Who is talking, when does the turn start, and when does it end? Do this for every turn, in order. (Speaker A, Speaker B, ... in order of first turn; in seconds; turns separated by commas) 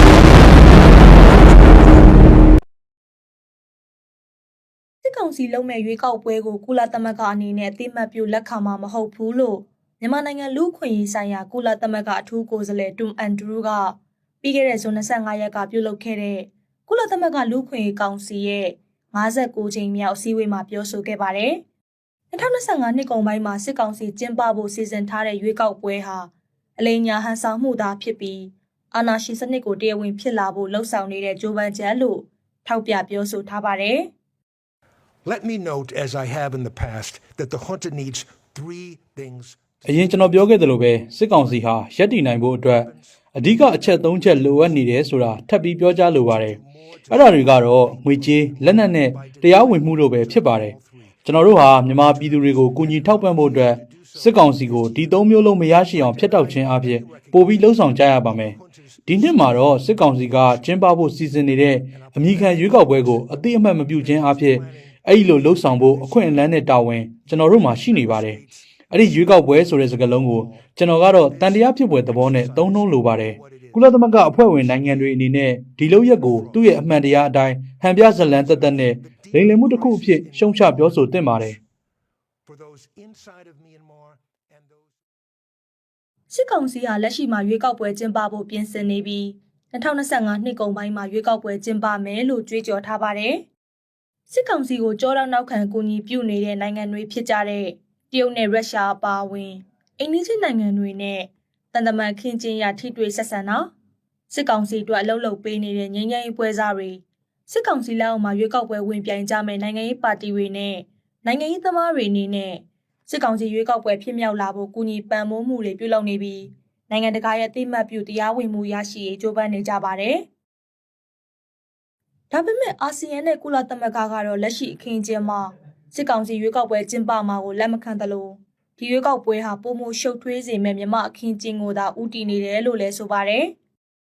Speaker A: 5.0-21.6, Speaker A: 22.3-34.1, Speaker B: 35.2-44.9, Speaker C: 39.9-46.6, Speaker B: 46.0-75.3, Speaker C: 47.1-58.6, Speaker C: 59.1-68.4, Speaker C: 68.9-81.6, Speaker B: 75.9-77.2, Speaker B: 78.0-81.6, Speaker B: 82.5-85.0, Speaker A: 86.3-93.5, Speaker A: 94.3-103.7, Speaker A: 104.3-120.3, Speaker A: 122.3-133.5